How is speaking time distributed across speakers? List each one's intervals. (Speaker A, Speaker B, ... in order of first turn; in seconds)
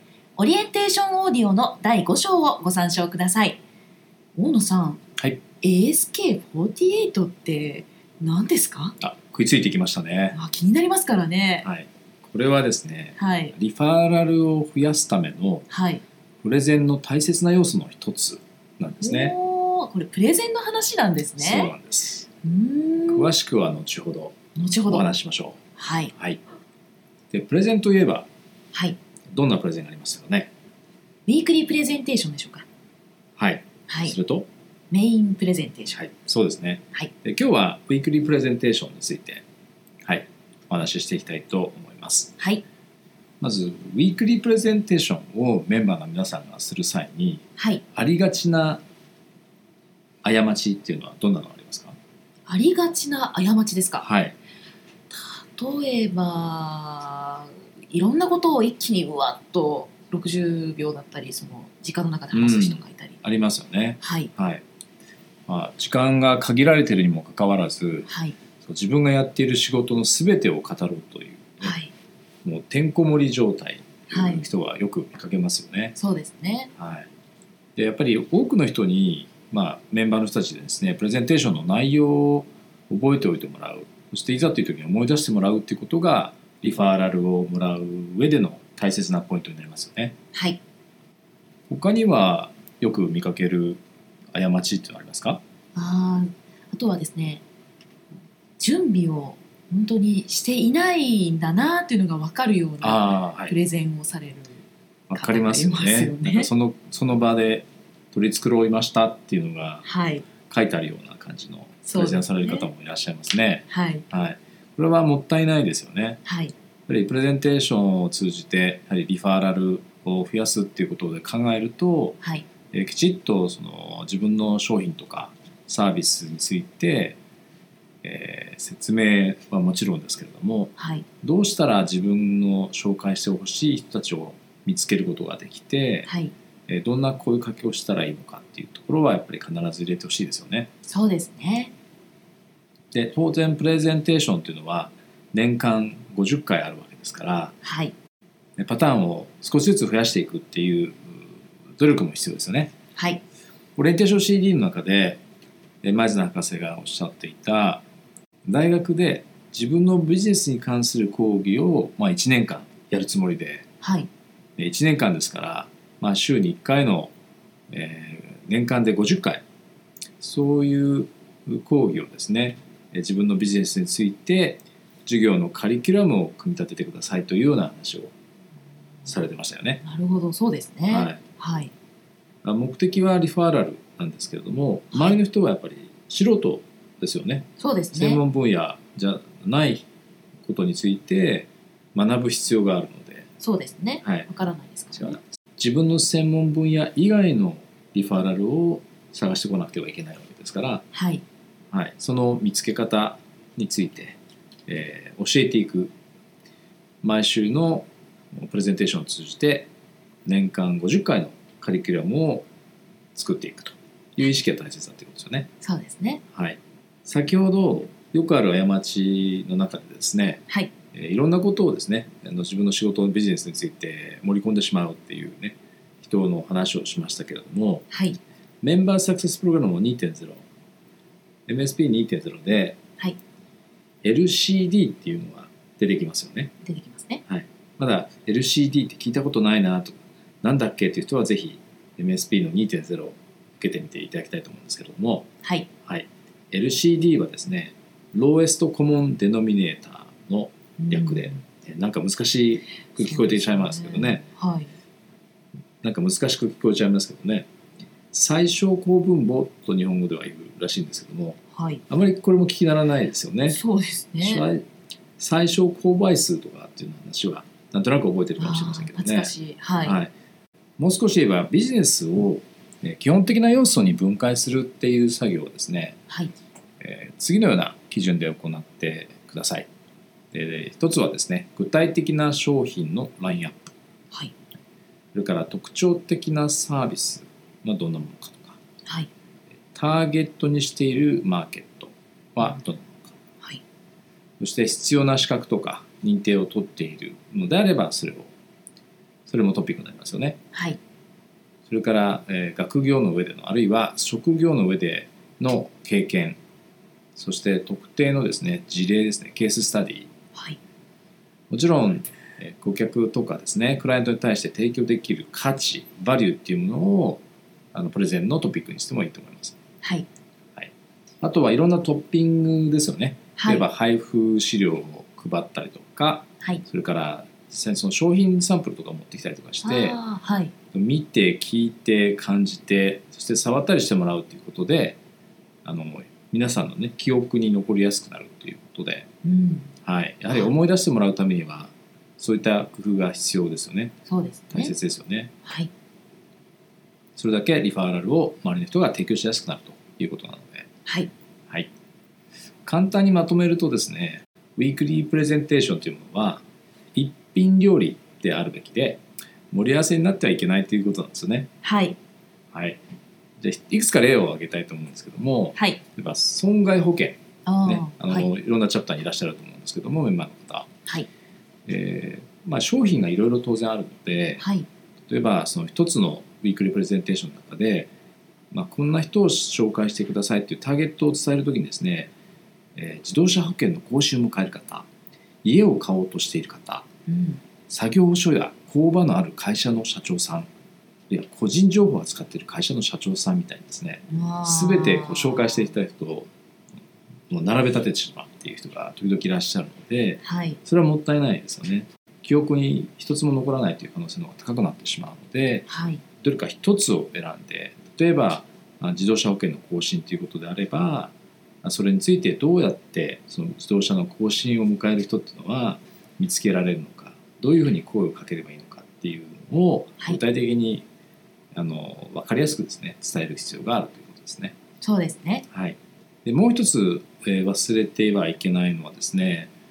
Speaker A: 0.3-3.6, 4.3-5.0, 5.6-8.9, 10.3-11.7, 13.2-13.5, 15.7-16.0, 19.0-21.7, 22.4-23.3, 24.6-25.1, 25.8-26.1, 31.3-32.6, 33.9-34.1, 34.9-36.0, 42.4-42.6, 47.6-47.8, 52.5-54.0, 55.1-63.2, 64.0-64.3, 68.1-68.3, 71.6-71.9, 74.1-74.5, 76.0-76.7, 90.3-90.6, 95.7-97.4, 98.6-104.6, 105.1-106.5, 109.8-110.2, 111.8-112.7, 113.7-114.0, 116.2-116.5, 130.8-131.0, 136.0-136.3, 140.9-141.7, 147.6-147.9, 152.9-153.2, 163.8-164.1, 179.8-181.7, 184.9-185.2, 187.6-188.2, 193.4-195.2, 200.9-201.2, 215.6-216.2, 227.9-228.2, 236.6-237.2, 245.4-245.7, 250.8-251.4, 253.1-254.7, 261.6-261.8, 263.5-264.4, 268.4-270.0, 300.5-300.8, 323.4-323.7, 329.6-330.5, 339.2-339.7, 344.1-344.7, 350.9-351.1, 361.6-362.0, 367.4-368.3, 374.4-374.6, 387.1-387.4, 394.1-395.7, 400.2-400.6, 405.7-406.0, 424.8-425.4
Speaker B: 5.2-5.4, 9.0-10.4, 11.6-15.7, 16.4-19.3, 21.4-22.3, 23.0-25.6, 27.3-28.3, 29.3-30.5, 33.4-34.5, 35.9-39.4, 40.0-42.3, 43.4-48.8, 50.2-52.0, 54.0-54.4, 62.3-64.6, 65.5-68.1, 68.6-71.8, 72.4-76.0, 76.8-77.1, 77.8-90.1, 91.7-93.8, 94.3-95.4, 102.8-103.5, 105.1-109.8, 110.4-116.2, 116.9-122.2, 122.7-127.2, 128.0-136.1, 136.7-140.7, 142.9-147.5, 148.6-151.2, 151.8-152.7, 153.8-155.2, 155.8-157.8, 158.4-163.7, 164.6-167.1, 167.7-169.4, 170.2-178.1, 179.1-179.8, 180.9-181.2, 182.4-189.8, 190.4-193.3, 194.0-194.3, 194.9-200.8, 201.7-205.9, 207.0-209.7, 210.2-212.4, 213.1-215.5, 216.3-227.8, 228.6-230.4, 231.5-232.8, 234.0-236.5, 237.3-245.3, 245.8-254.2, 255.8-257.4, 258.1-263.6, 264.2-264.6, 265.2-269.3, 269.8-270.1, 270.8-276.0, 276.8-279.7, 280.3-283.7, 285.1-288.6, 289.7-293.1, 294.4-298.3, 299.3-300.4, 301.7-306.4, 307.1-310.1, 311.5-317.2, 317.7-319.6, 320.6-330.0, 330.7-335.0, 335.6-339.1, 339.8-343.9, 344.5-345.4, 347.1-350.7, 352.6-356.4, 356.9-361.5, 362.5-362.8, 363.4-370.7, 371.6-374.4, 375.1-377.9, 378.5-382.1, 382.8-384.9, 385.4-386.9, 387.7-390.5, 391.1-396.3, 397.3-405.7, 406.2-420.8, 421.5-424.5, 425.5-429.5